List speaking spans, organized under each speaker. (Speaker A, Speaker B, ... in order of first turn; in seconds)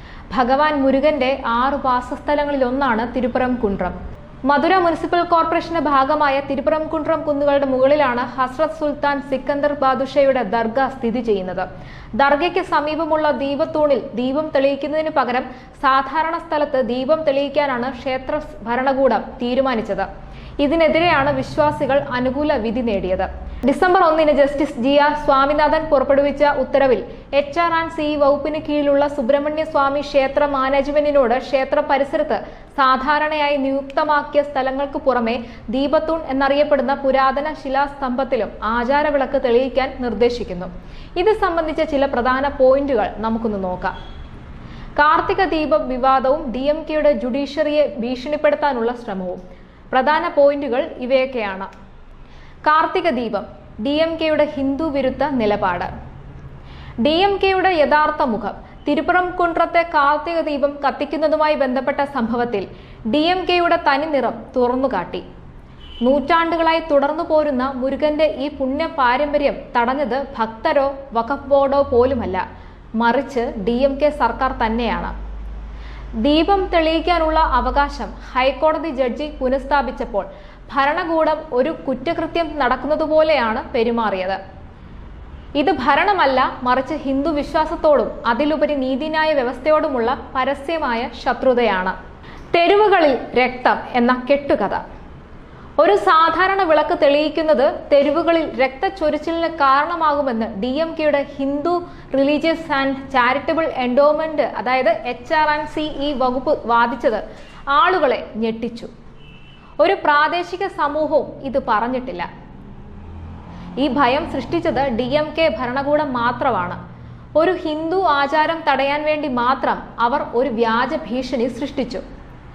Speaker A: 0.3-4.0, 4.5-20.1, 20.6-43.9, 45.0-51.7, 52.6-55.9, 57.0-65.2, 66.0-72.4, 73.0-75.1, 76.2-84.4, 85.6-92.0, 92.5-94.8, 95.8-107.2, 107.7-108.9, 109.8-112.3, 113.8-116.8, 117.4-122.0